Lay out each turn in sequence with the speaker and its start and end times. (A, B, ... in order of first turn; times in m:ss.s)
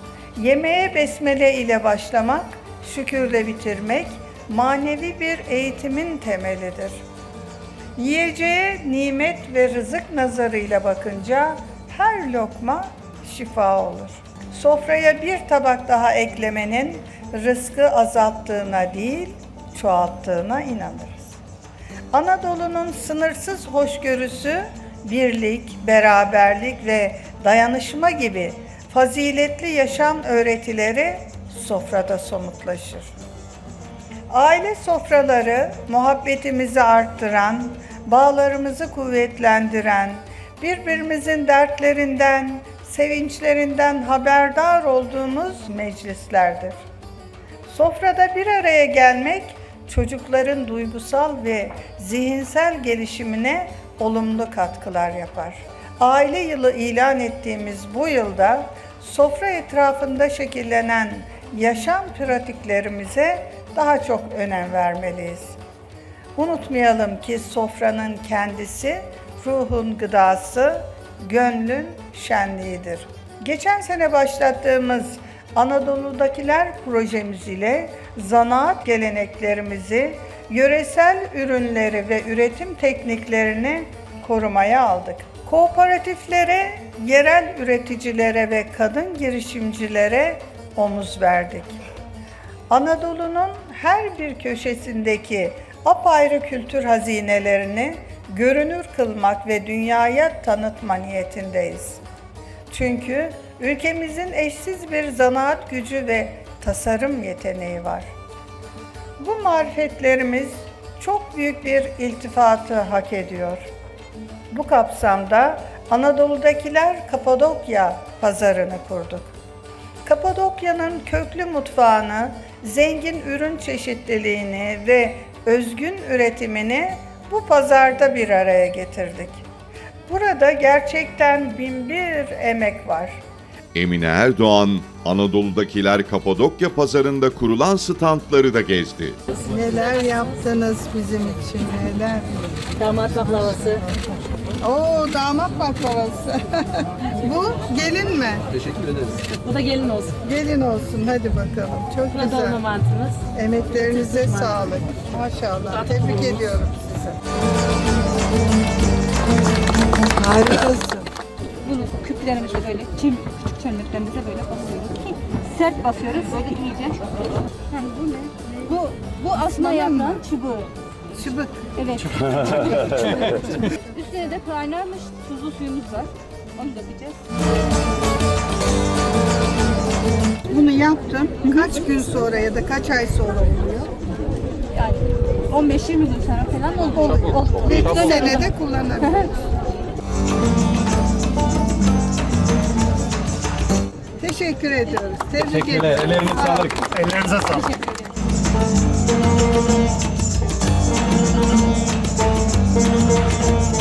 0:00.4-0:07.0 A
0:08.0-0:21.3 A
0:22.1-0:33.1 A
0:34.3-0:46.8 A
0:47.7-1:05.6 A
1:06.4-1:31.8 A
1:32.7-1:42.0 A
1:42.7-1:48.1 A
1:49.2-1:53.7 A
1:54.5-1:59.3 A
2:00.0-2:09.4 A
2:10.1-2:13.2 A
2:13.7-2:19.2 B
2:19.5-2:22.3 A
2:22.8-2:23.8 C
2:24.6-2:26.4 A
2:27.0-2:28.4 A
2:29.3-2:30.2 C
2:30.2-2:32.6 A
2:32.1-2:33.2 C
2:33.3-2:37.0 A
2:40.2-2:41.0 A
2:41.7-2:47.0 D
2:47.7-2:50.7 D
2:49.6-2:50.1 A
2:51.2-2:51.5 A
2:51.8-2:53.2 D
2:54.0-2:57.2 D
3:00.5-3:03.9 A
3:05.5-3:08.4 D
3:07.6-3:09.2 A
3:14.2-3:17.6 A